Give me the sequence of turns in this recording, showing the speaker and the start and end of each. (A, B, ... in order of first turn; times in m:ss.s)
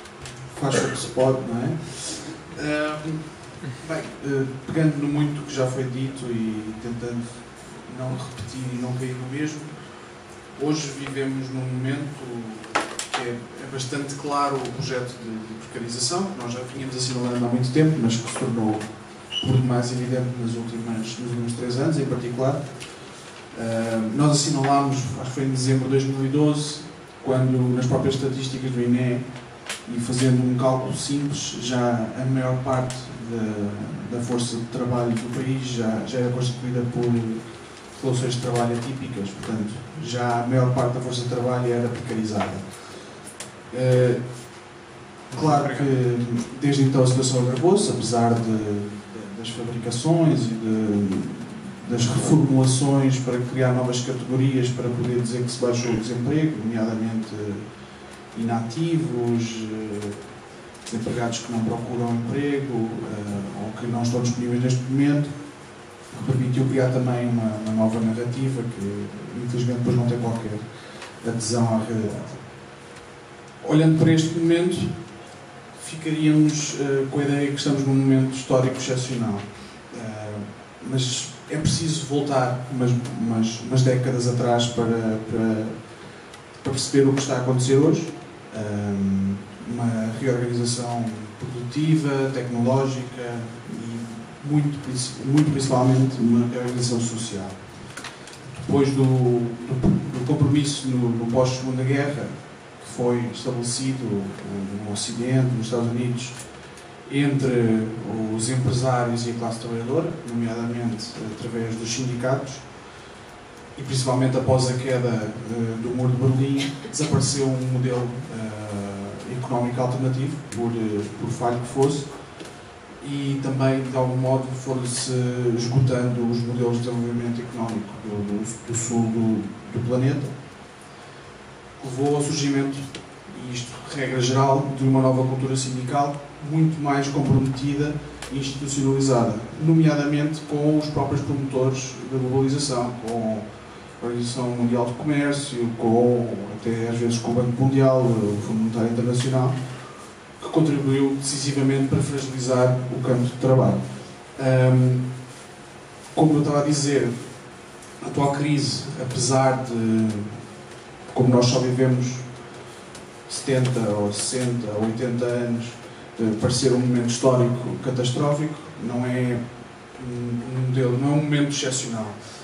0:00.5-0:09.9 A
0:10.5-0:18.8 A
0:19.4-0:22.8 A
0:23.5-0:29.3 A
0:29.8-0:43.0 A
0:43.7-0:44.3 A
0:45.3-0:57.7 A
0:58.3-1:00.3 A
1:00.8-1:05.3 A
1:06.1-1:10.7 A
1:11.2-1:12.4 A
1:13.6-1:15.0 A
1:15.8-1:25.8 A
1:26.6-1:37.6 A
1:38.5-1:46.4 A
1:47.0-1:52.7 A
1:53.7-2:02.1 A
2:03.0-2:10.3 A
2:11.8-2:23.5 A
2:24.0-2:29.6 A
2:30.4-2:35.1 A
2:36.1-2:37.3 A
2:38.0-2:40.4 A
2:41.1-2:42.3 A
2:43.3-2:49.4 A
2:49.9-2:52.3 A